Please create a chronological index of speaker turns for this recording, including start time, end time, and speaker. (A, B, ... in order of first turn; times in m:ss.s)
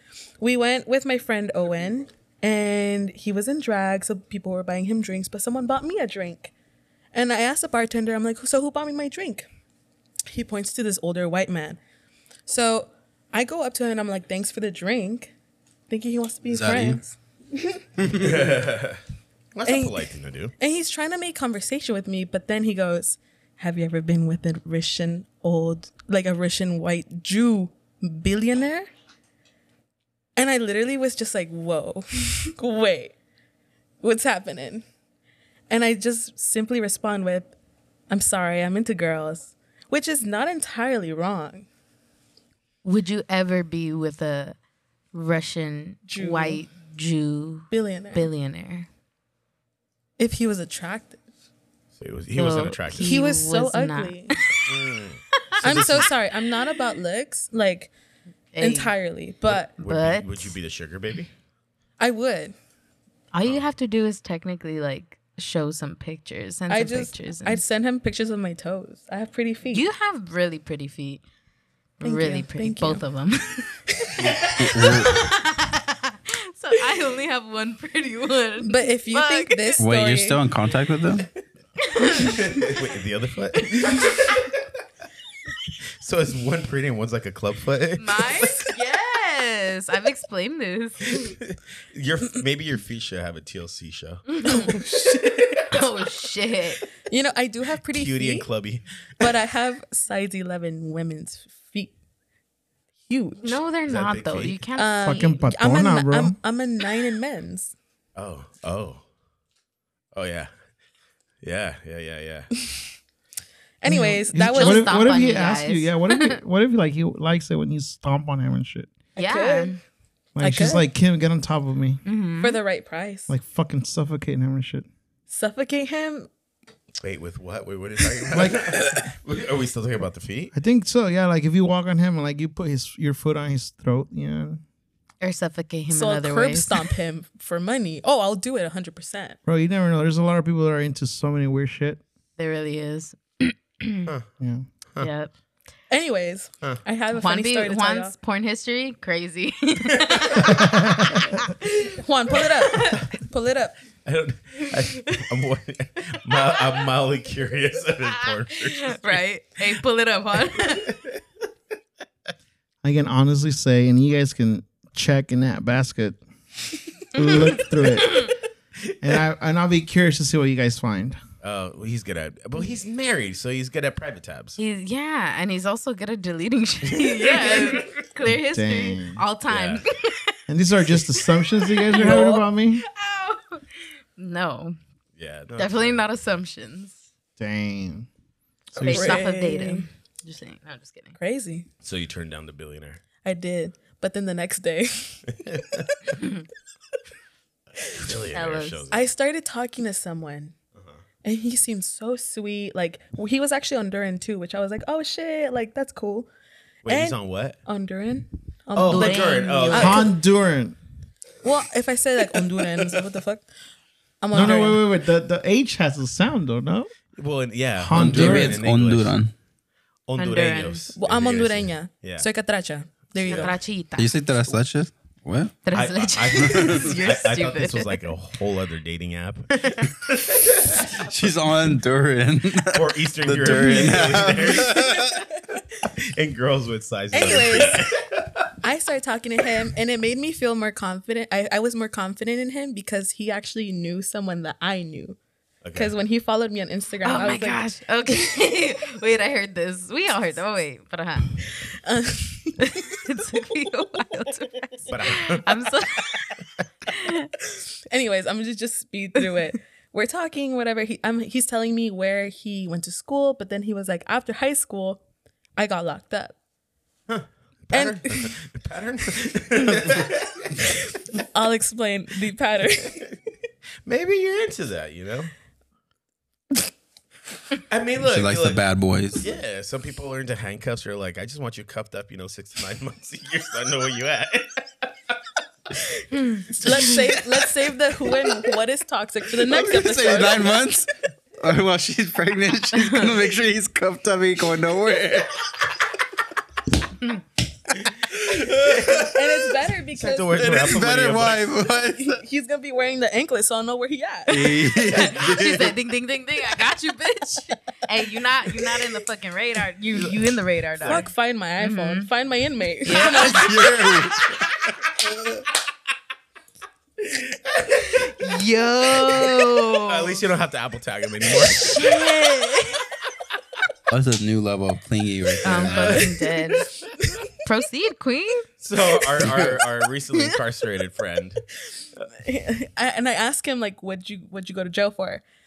0:00.4-0:06.5 A
0:07.1-0:09.5 A
0:10.3-0:11.8 A
0:12.5-0:15.3 A
0:15.9-0:17.8 A
0:16.5-0:17.0 B
0:18.0-0:18.3 B
0:18.1-0:19.0 C
0:19.5-0:20.5 C
0:19.6-0:28.9 A
0:30.4-0:33.1 A
0:34.0-0:34.8 A
0:35.7-0:37.5 A
0:38.1-0:41.7 A
0:42.8-0:44.6 D
0:45.1-0:48.9 D
0:46.0-0:46.6 A
0:47.7-0:48.3 A
0:50.2-0:51.2 A
0:52.0-0:53.1 C
0:52.3-0:54.9 D
0:53.0-0:54.4 A
0:54.7-0:56.1 C
0:55.6-0:57.9 A
0:58.5-0:58.9 D
0:58.6-0:59.7 A
0:59.5-1:01.3 C
0:59.8-1:00.6 D
1:02.0-1:02.5 A
1:03.3-1:07.6 D
1:06.7-1:09.8 A
1:09.7-1:11.2 D
1:12.0-1:19.8 D
1:12.0-1:13.0 A
1:14.0-1:14.5 A
1:14.2-1:15.3 B
1:18.6-1:20.4 A
1:19.8-1:21.3 B
1:21.9-1:22.7 D
1:22.2-1:24.5 C
1:26.0-1:28.5 C
1:28.0-1:31.3 D
1:31.1-1:35.6 C
1:34.3-1:34.8 D
1:34.4-1:35.6 A
1:35.7-1:36.8 D
1:37.0-1:38.5 A
1:37.9-1:39.3 C
1:39.2-1:41.9 A
1:43.1-1:43.6 A
1:43.4-1:45.4 D
1:43.8-1:44.6 C
1:44.7-1:47.7 A
1:45.0-1:46.4 E
1:48.2-1:49.0 C
1:50.1-1:50.5 C
1:51.4-1:52.5 C
1:52.6-1:52.9 A
1:53.8-1:55.0 A
1:53.9-1:58.9 E
1:54.5-1:56.4 D
1:59.2-1:59.7 A
1:59.2-1:59.8 D
2:00.4-2:02.0 E
2:00.4-2:00.8 A
2:02.0-2:02.6 D
2:02.4-2:03.3 A
2:03.3-2:04.8 E
2:05.3-2:06.3 A
2:07.0-2:10.5 C
2:08.3-2:08.8 E
2:10.5-2:14.6 E
2:15.2-2:16.9 D
2:15.9-2:19.4 A
2:19.4-2:22.0 E
2:22.4-2:24.1 D
2:24.4-2:24.6 E
2:25.0-2:25.3 D
2:25.9-2:28.1 A
2:27.1-2:32.0 D
2:30.5-2:31.2 E
2:31.8-2:33.8 A
2:32.6-2:33.0 D
2:34.0-2:39.2 C
2:38.5-2:41.0 D
2:42.8-2:46.2 E
2:47.1-2:48.3 E
2:48.0-2:48.3 D
2:49.0-2:51.2 E
2:51.4-2:54.6 C
2:54.6-3:00.3 D
2:57.0-2:57.9 C
2:58.2-2:59.2 E
2:59.5-2:59.8 C
3:00.5-3:02.8 E
3:01.1-3:03.6 D
3:01.9-3:02.4 A
3:04.2-3:04.8 D
3:05.2-3:06.0 C
3:05.6-3:07.0 D
3:07.4-3:08.1 E
3:08.7-3:09.2 C
3:08.7-3:11.1 D
3:08.9-3:09.8 A
3:11.2-3:11.7 A
3:11.8-3:13.0 C
3:13.2-3:15.3 A
3:15.4-3:15.9 C
3:17.8-3:19.0 C
3:18.3-3:18.8 D
3:18.9-3:20.5 A
3:21.2-3:26.3 A
3:26.8-3:27.6 C
3:26.9-3:30.1 A
3:28.7-3:30.1 C
3:28.9-3:30.1 D
3:29.8-3:30.8 E
3:31.4-3:33.4 A
3:34.2-3:34.8 A
3:34.3-3:36.9 E
3:37.2-3:39.1 C
3:37.8-3:38.6 E
3:37.9-3:39.3 B
3:40.1-3:42.2 C
3:40.2-3:40.9 D
3:41.0-3:43.6 A
3:43.2-3:43.5 C
3:43.3-3:44.1 D
3:44.0-3:45.6 B
3:45.6-3:48.0 D
3:45.7-3:50.9 C
3:46.4-3:46.8 B
3:51.0-3:55.1 B
3:52.7-3:55.3 C
3:55.8-3:58.5 C
3:57.1-3:57.9 A
3:58.6-4:05.2 A
4:05.6-4:05.9 C
4:05.7-4:07.7 A
4:07.0-4:11.4 D
4:11.7-4:12.9 A
4:12.6-4:16.3 D
4:14.8-4:15.5 C
4:16.9-4:17.3 D
4:17.5-4:25.0 A
4:25.6-4:26.3 A
4:27.1-4:30.7 C
4:27.7-4:28.3 A
4:31.1-4:33.0 A
4:33.8-4:35.3 C
4:37.7-4:38.6 C
4:38.0-4:39.2 B
4:39.2-4:44.9 C
4:46.1-4:47.0 D
4:46.5-4:50.5 A
4:49.4-4:55.7 B
4:52.7-4:53.1 D
4:58.0-4:58.9 B
4:58.2-4:59.2 C
4:58.9-5:00.4 A
4:59.9-5:01.4 C
5:00.4-5:02.2 B
5:02.0-5:04.8 A
5:04.3-5:05.8 B
5:04.9-5:11.1 D
5:09.9-5:10.2 C
5:10.8-5:11.0 C
5:10.8-5:13.6 A
5:11.6-5:12.1 D
5:12.8-5:13.5 D
5:13.0-5:14.4 B
5:17.0-5:18.1 C
5:17.9-5:20.2 D
5:19.9-5:22.0 C
5:21.6-5:22.9 A
5:23.9-5:26.1 B
5:25.4-5:26.7 D
5:25.7-5:26.1 C
5:27.4-5:28.5 D
5:28.6-5:31.4 C
5:29.2-5:29.6 B
5:32.2-5:35.2 A